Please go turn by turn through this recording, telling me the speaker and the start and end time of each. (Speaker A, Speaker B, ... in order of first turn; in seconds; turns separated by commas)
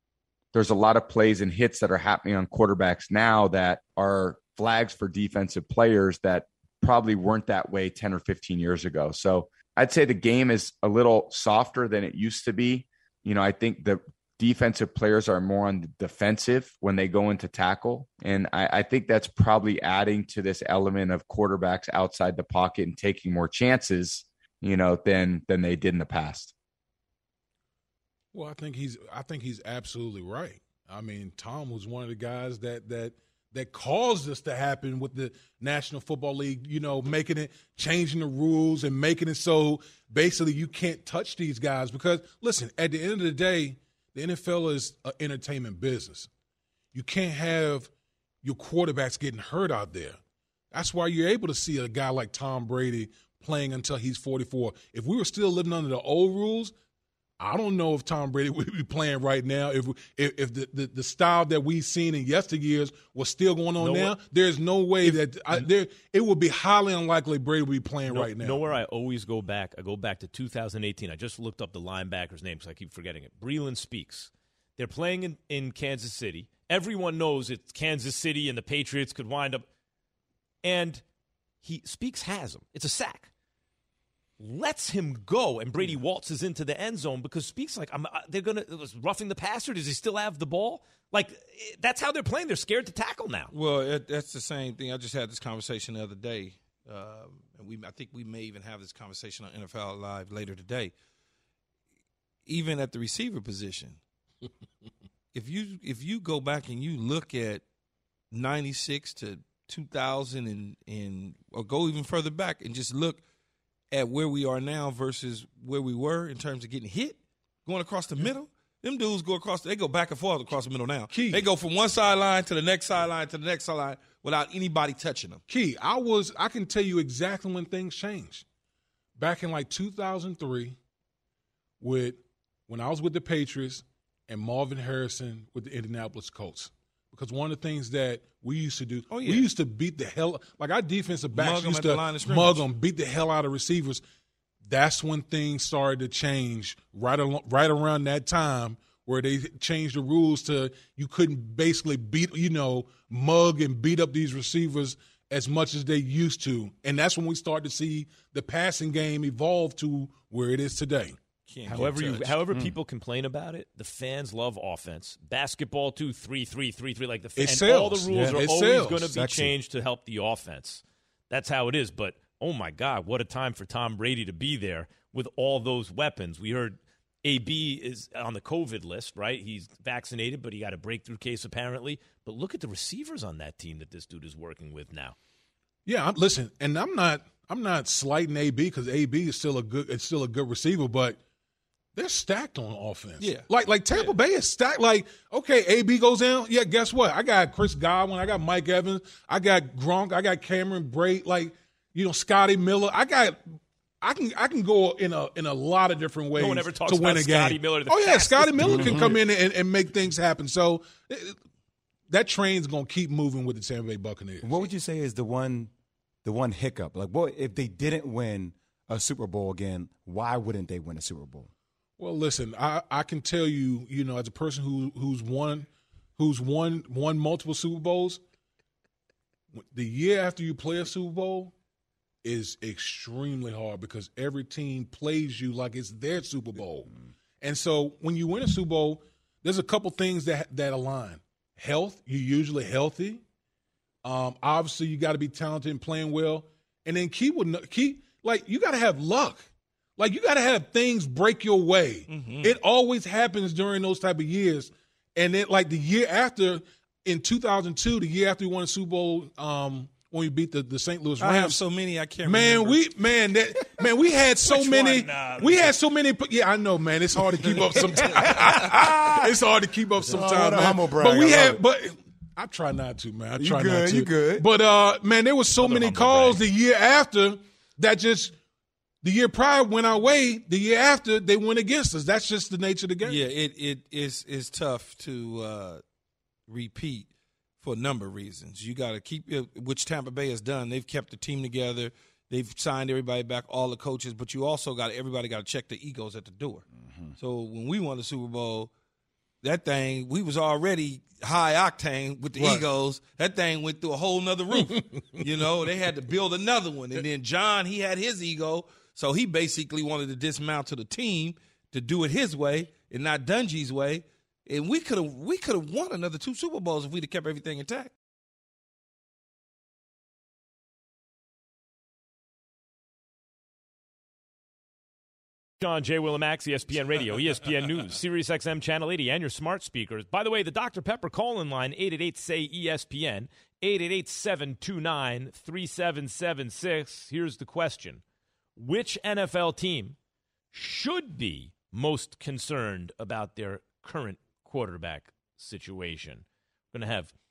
Speaker A: 0.5-26.5, Speaker B: 28.3-46.3, Speaker B: 46.9-47.9, Speaker B: 48.4-50.2, Speaker B: 50.7-56.7, Speaker B: 57.4-68.6, Speaker C: 63.8-64.2, Speaker C: 65.0-65.7, Speaker C: 68.1-79.6, Speaker C: 80.6-81.0, Speaker C: 81.6-83.3, Speaker C: 84.4-93.5, Speaker D: 93.5-100.9, Speaker D: 102.5-104.0, Speaker D: 105.3-107.6, Speaker D: 108.3-113.2, Speaker D: 113.9-125.4, Speaker B: 121.1-121.5, Speaker B: 125.5-128.4, Speaker B: 129.2-130.8, Speaker B: 131.8-144.0, Speaker D: 139.1-139.5, Speaker D: 141.3-142.6, Speaker B: 144.7-161.2, Speaker D: 161.5-162.4, Speaker C: 161.7-185.1, Speaker B: 167.4-169.1, Speaker E: 168.1-168.4, Speaker E: 169.1-169.5, Speaker B: 185.8-191.2, Speaker B: 191.9-211.4, Speaker D: 193.2-194.1, Speaker C: 206.3-209.1, Speaker E: 208.6-209.2, Speaker B: 212.1-214.5, Speaker E: 214.4-215.7, Speaker E: 216.2-221.5, Speaker B: 222.0-228.2, Speaker B: 229.5-231.5, Speaker B: 232.2-243.2, Speaker B: 244.0-261.6, Speaker D: 252.1-252.6, Speaker D: 261.2-262.8, Speaker B: 262.2-278.3, Speaker C: 264.5-265.7, Speaker D: 267.9-268.6, Speaker E: 270.1-271.6, Speaker E: 273.4-274.4, Speaker C: 275.6-276.4, Speaker B: 279.0-283.2, Speaker D: 283.0-285.8, Speaker D: 286.5-287.1, Speaker D: 287.6-298.7, Speaker D: 299.4-317.9, Speaker B: 302.4-302.6, Speaker C: 325.6-338.0, Speaker C: 338.6-339.9, Speaker C: 340.5-347.1